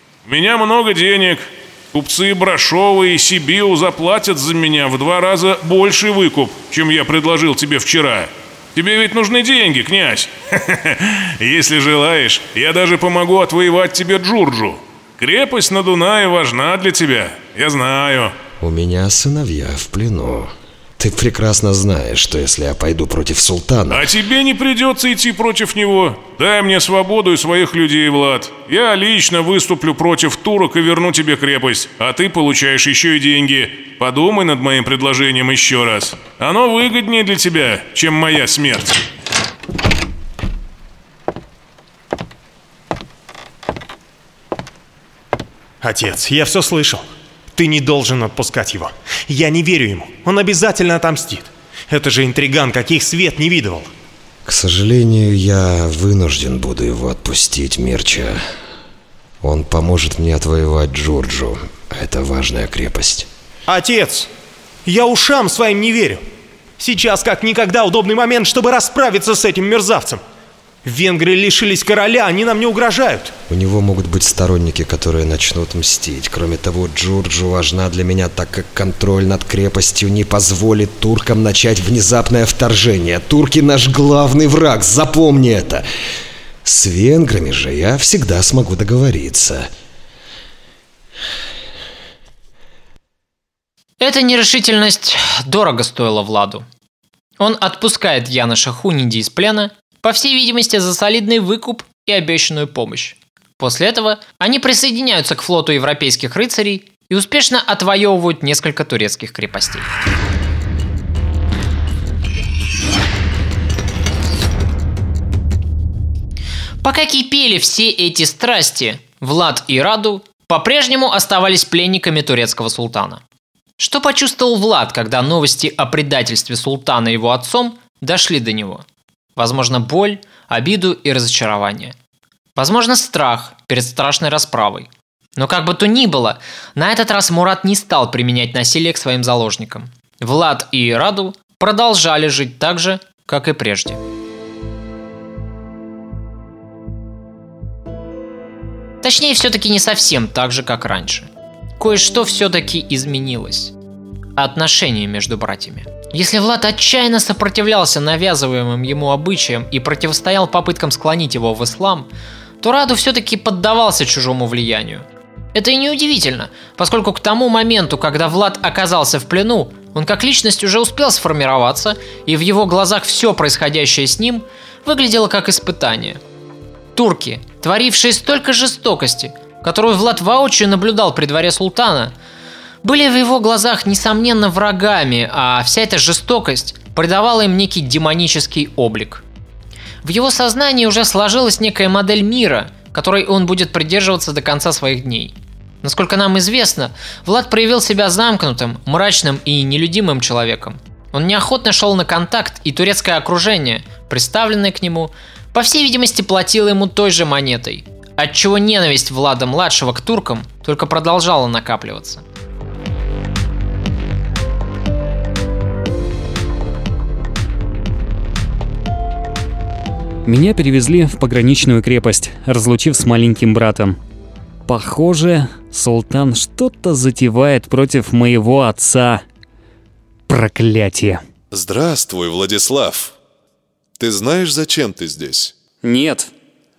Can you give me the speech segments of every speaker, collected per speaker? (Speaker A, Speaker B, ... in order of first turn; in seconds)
Speaker A: 0.2-18.4, 23.9-39.0
Speaker B: 18.6-24.1, 54.5-58.4, 59.4-63.3, 73.5-85.8, 86.7-89.7
Speaker C: 45.8-53.9, 63.7-64.3, 64.9-66.2, 66.8-70.2, 70.8-73.3
Speaker D: 94.0-96.7, 97.4-109.9, 116.8-123.2, 123.8-128.8, 129.4-131.9, 132.6-144.0, 149.0-153.7, 154.4-162.1, 162.6-176.2, 176.9-182.1, 182.8-189.2, 190.0-212.2
Speaker E: 220.2-224.0, 224.7-229.2, 230.3-231.2, 235.8-236.3
Speaker F: 231.5-233.2, 234.0-235.5